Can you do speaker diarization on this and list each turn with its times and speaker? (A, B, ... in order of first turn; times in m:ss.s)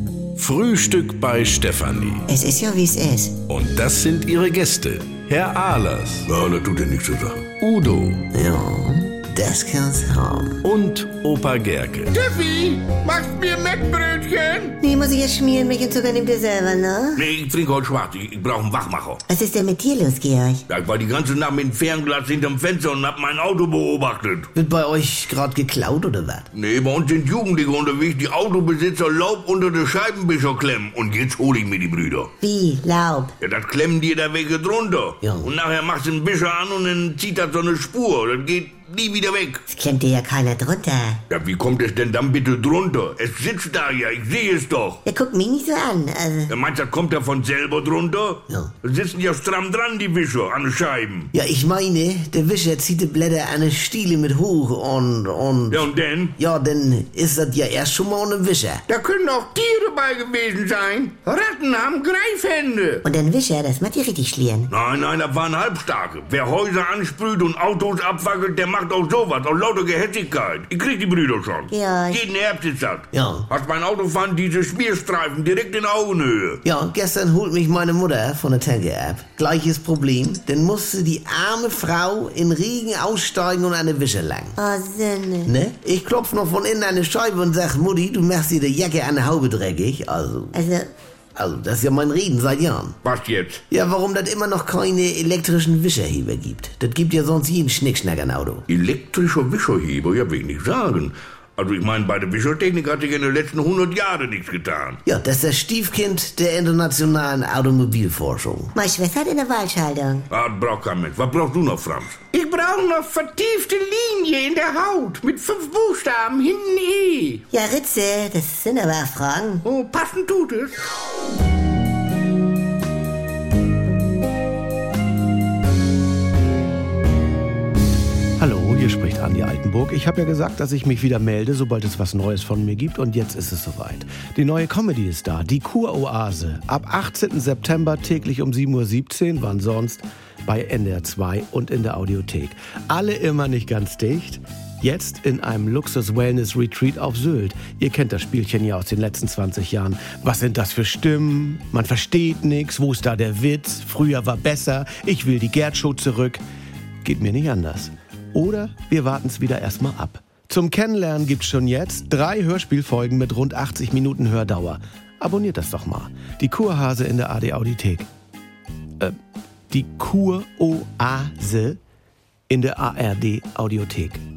0:00.4-0:02.3 A
0:02.3-0:03.4 B
0:03.5-0:06.3 A
0:06.2-0:07.5 C
0:07.6-0:08.2 A
0:08.3-0:10.6 D
0:10.6-0:12.1 A
0:12.1-0:14.8 C
0:14.8-0:17.2 B
0:17.2-0:19.2 C
0:19.3-0:20.6 B
0:20.7-0:24.5 C
0:24.6-0:26.4 D
0:26.5-0:32.3 C
0:32.4-0:33.3 B
0:33.4-0:39.6 C
0:35.2-0:35.5 D
0:39.7-0:41.2 B
0:41.3-0:45.0 C
0:45.0-0:46.5 B
0:46.5-0:51.3 C
0:51.3-0:55.8 D
0:55.7-0:56.3 C
0:56.4-0:58.8 D
0:58.9-1:03.0 C
1:03.0-1:04.7 B
1:04.7-1:16.6 C
1:11.7-1:12.2 B
1:13.1-1:13.4 D
1:16.6-1:24.6 D
1:24.6-1:25.5 B
1:25.4-1:30.6 D
1:30.5-1:30.9 B
1:31.4-1:33.0 D
1:33.0-1:33.6 C
1:33.7-1:38.6 D
1:38.7-1:45.0 C
1:45.0-1:48.7 D
1:48.7-1:50.2 B
1:50.3-1:57.4 C
1:57.5-1:59.6 B
1:59.6-2:00.8 C
2:08.4-2:36.4 E
2:37.0-2:48.1 E
2:49.7-2:51.8 E
2:52.5-2:54.2 E